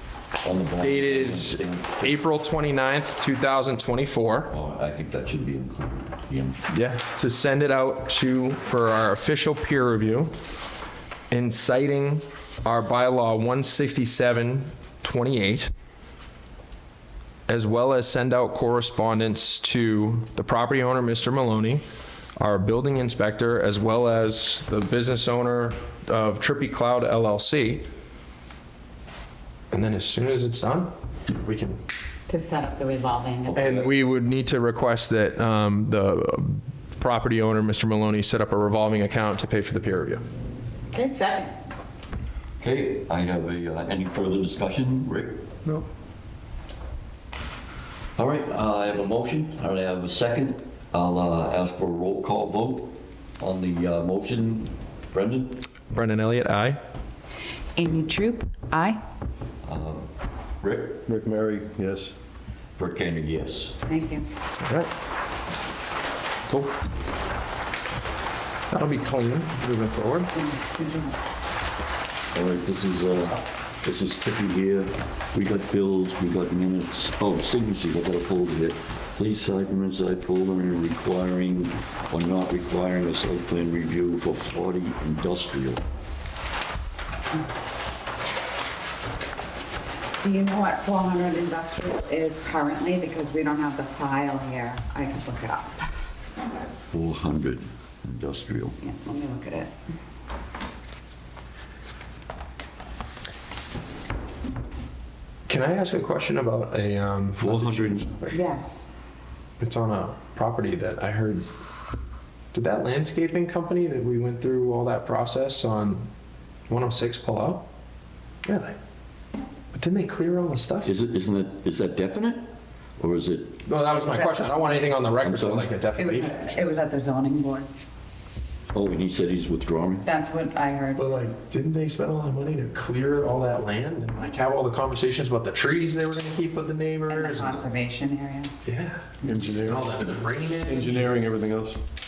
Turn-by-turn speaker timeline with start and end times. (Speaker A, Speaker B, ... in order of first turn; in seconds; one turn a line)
Speaker A: 0.4-2.1
Speaker B: 0.8-4.5
Speaker A: 4.5-6.6
Speaker B: 6.7-10.3
Speaker B: 11.3-15.7
Speaker B: 17.5-21.8
Speaker B: 22.4-27.9
Speaker B: 29.7-31.8
Speaker C: 32.3-33.7
Speaker A: 33.5-33.9
Speaker B: 33.5-40.2
Speaker C: 40.9-41.5
Speaker A: 42.6-45.4
Speaker A: 48.2-55.7
Speaker B: 55.9-56.8
Speaker C: 57.8-59.0
Speaker A: 59.6-60.1
Speaker A: 60.6-61.0
Speaker D: 61.1-62.1
Speaker A: 62.8-63.8
Speaker C: 63.9-64.3
Speaker B: 64.6-64.9
Speaker B: 68.7-70.3
Speaker C: 70.3-71.2
Speaker A: 72.3-85.8
Speaker C: 90.2-95.9
Speaker A: 96.9-98.8
Speaker C: 98.8-99.7
Speaker B: 105.5-108.4
Speaker A: 107.4-108.1
Speaker C: 108.3-108.8
Speaker B: 109.6-111.5
Speaker B: 112.5-116.1
Speaker B: 116.7-117.7
Speaker B: 118.5-118.8
Speaker B: 119.7-120.9
Speaker A: 120.8-122.5
Speaker A: 123.0-123.6
Speaker B: 123.7-126.6
Speaker A: 125.2-125.7
Speaker C: 126.0-127.7
Speaker A: 128.7-130.1
Speaker C: 130.0-131.1
Speaker B: 131.0-137.6
Speaker C: 137.1-138.5
Speaker B: 138.7-141.1
Speaker D: 139.2-141.8